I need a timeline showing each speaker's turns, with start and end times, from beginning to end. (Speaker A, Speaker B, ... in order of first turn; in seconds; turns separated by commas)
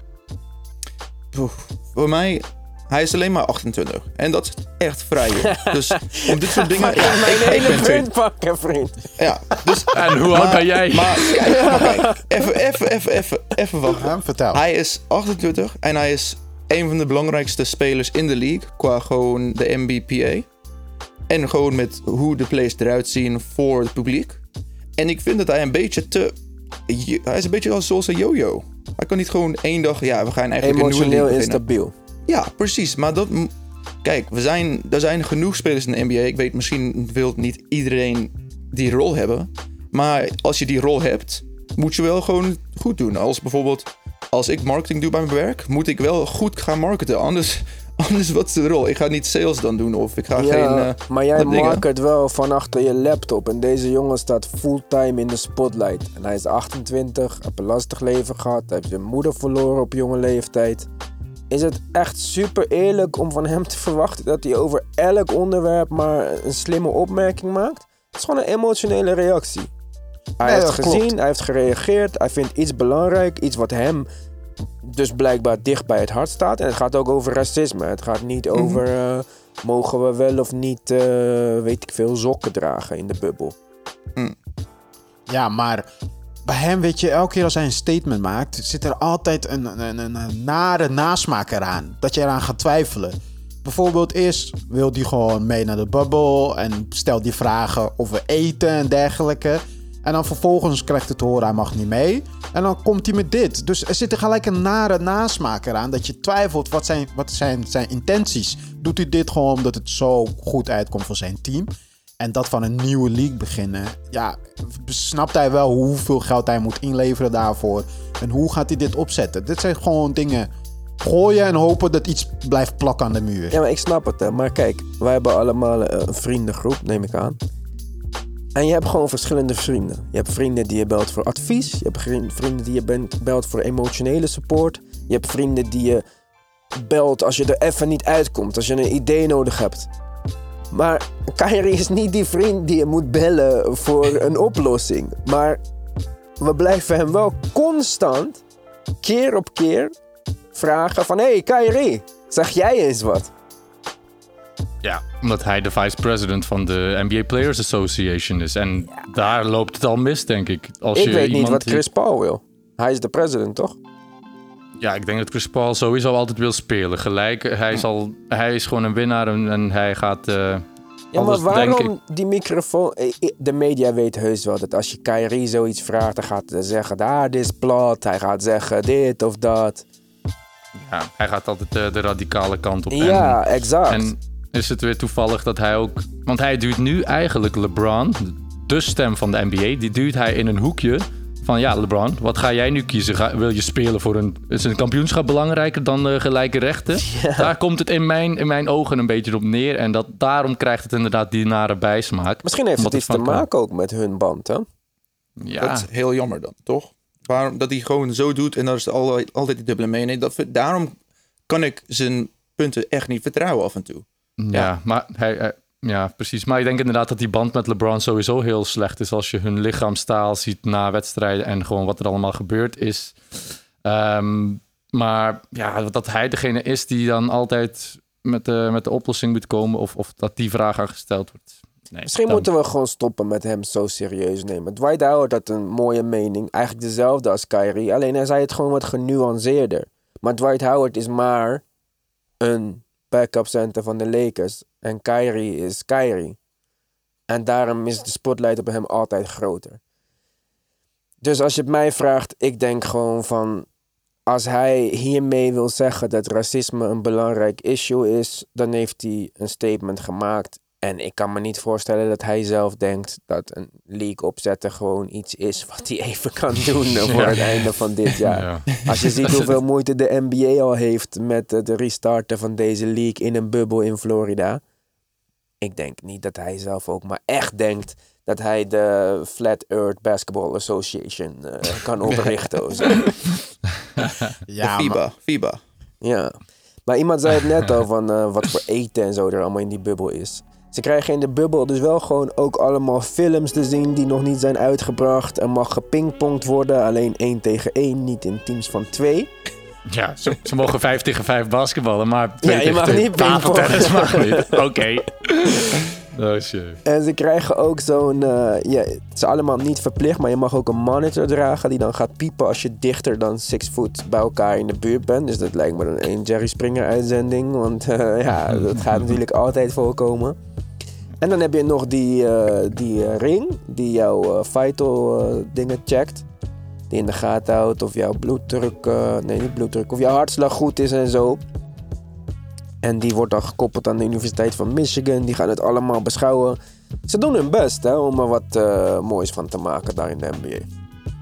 Speaker A: 1.3-8.1, Speaker B: 5.5-9.1, Speaker A: 9.2-20.5, Speaker C: 9.9-11.4, Speaker B: 11.4-12.2, Speaker D: 13.9-14.6, Speaker A: 21.3-24.4, Speaker A: 25.0-26.3, Speaker A: 26.9-31.6, Speaker B: 30.6-31.9, Speaker A: 32.3-33.5, Speaker A: 34.0-51.8, Speaker B: 50.4-60.9, Speaker B: 61.5-69.7, Speaker B: 70.4-74.1, Speaker D: 70.4-71.1, Speaker B: 74.8-83.5, Speaker A: 78.5-78.8, Speaker D: 85.3-85.9, Speaker D: 86.5-120.5, Speaker D: 121.0-123.6, Speaker B: 123.5-127.4, Speaker B: 128.6-136.0, Speaker B: 136.8-139.9, Speaker B: 140.7-145.6, Speaker B: 146.4-148.4, Speaker B: 149.0-149.9, Speaker B: 150.5-153.3, Speaker C: 154.8-161.8, Speaker B: 160.9-163.8, Speaker C: 164.8-170.7, Speaker B: 171.1-179.8, Speaker C: 171.2-171.9, Speaker C: 180.8-203.4, Speaker B: 182.9-184.1, Speaker B: 197.0-197.5, Speaker B: 202.4-204.7, Speaker C: 205.4-205.9, Speaker A: 205.6-211.0, Speaker A: 211.5-214.7, Speaker C: 214.4-232.5, Speaker B: 232.1-241.6, Speaker B: 242.4-246.4, Speaker B: 247.3-249.8, Speaker B: 251.2-253.7, Speaker B: 254.3-274.6, Speaker C: 267.1-269.5, Speaker B: 275.6-283.2, Speaker D: 284.4-285.0, Speaker A: 284.6-285.6, Speaker B: 286.0-299.3, Speaker C: 299.9-306.8, Speaker B: 302.4-304.6, Speaker B: 306.9-320.4, Speaker B: 321.2-326.3, Speaker B: 326.9-331.4, Speaker B: 332.8-336.6, Speaker B: 337.1-340.7